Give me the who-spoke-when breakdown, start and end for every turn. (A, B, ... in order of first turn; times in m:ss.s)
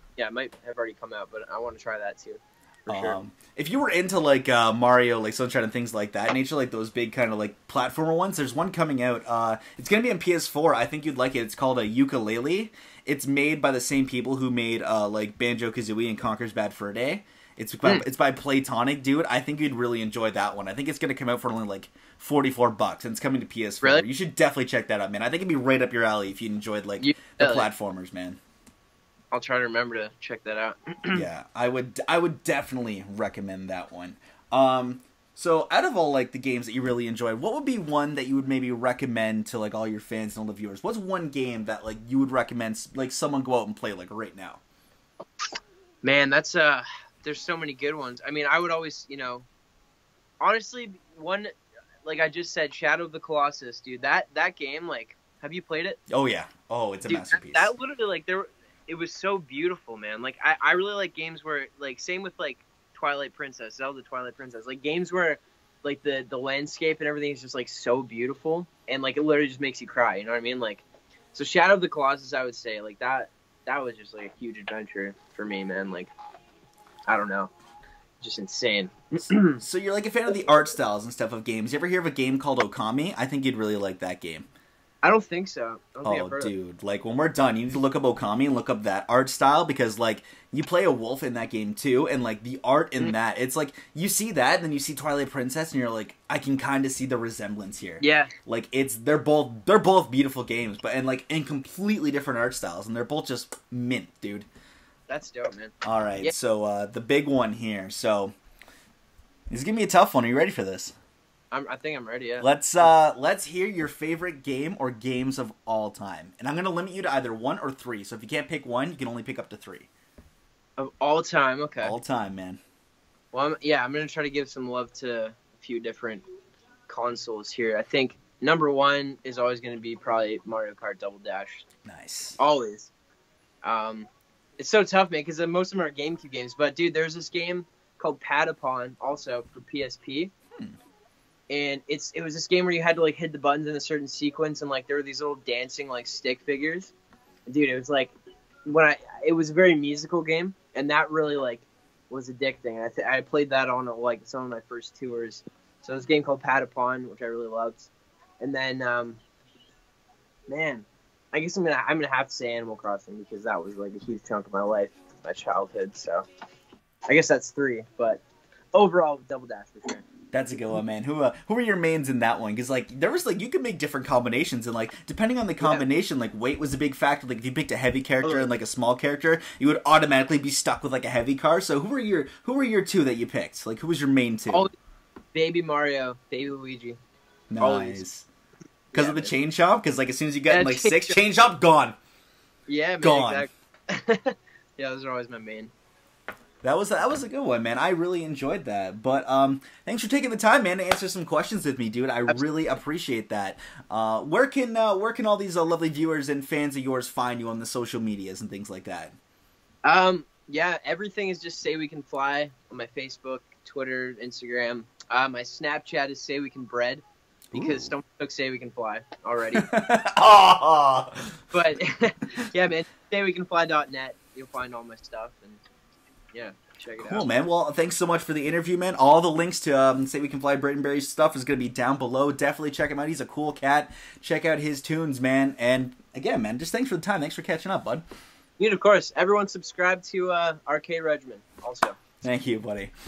0:00.2-0:03.2 A
0:02.9-0:28.4 B
0:27.0-0:27.7 A
0:29.3-0:31.2 A
0:31.1-0:44.6 B
0:46.0-0:49.5 A
0:50.4-0:51.5 A
0:52.0-0:56.0 A
0:56.1-0:57.7 B
0:57.0-1:16.1 A
1:17.1-1:17.5 A
1:18.2-1:19.6 A
1:19.4-1:24.5 B
1:25.0-1:26.5 A
1:26.0-1:44.5 B
1:38.0-1:38.3 A
1:45.1-1:46.3 A
1:45.8-1:48.3 B
1:49.5-1:50.9 B
1:51.5-1:52.9 A
1:52.4-1:59.9 B
2:00.8-2:01.9 A
2:01.8-2:02.6 B
2:03.3-2:06.2 A
2:06.9-2:11.6 A
2:11.8-2:12.4 B
2:12.4-2:12.9 A
2:13.6-2:20.3 A
2:21.5-2:26.9 A
2:27.5-2:28.1 A
2:28.6-2:37.9 A
2:38.4-2:39.2 A
2:40.5-2:46.2 A
2:47.1-2:48.2 A
2:48.7-2:50.8 A
2:50.3-3:04.7 B
3:05.3-3:07.0 A
3:07.5-3:08.2 B
3:07.6-3:08.0 A
3:08.9-3:09.3 A
3:08.9-3:12.0 B
3:10.5-3:11.2 A
3:12.7-3:15.7 A
3:13.0-3:13.5 B
3:16.6-3:29.1 B
3:29.8-3:39.7 A
3:37.5-3:37.9 B
3:39.6-3:41.4 B
3:41.5-3:45.6 A
3:46.3-3:47.3 A
3:47.0-3:58.0 B
3:58.6-4:02.0 A
4:02.2-4:02.9 B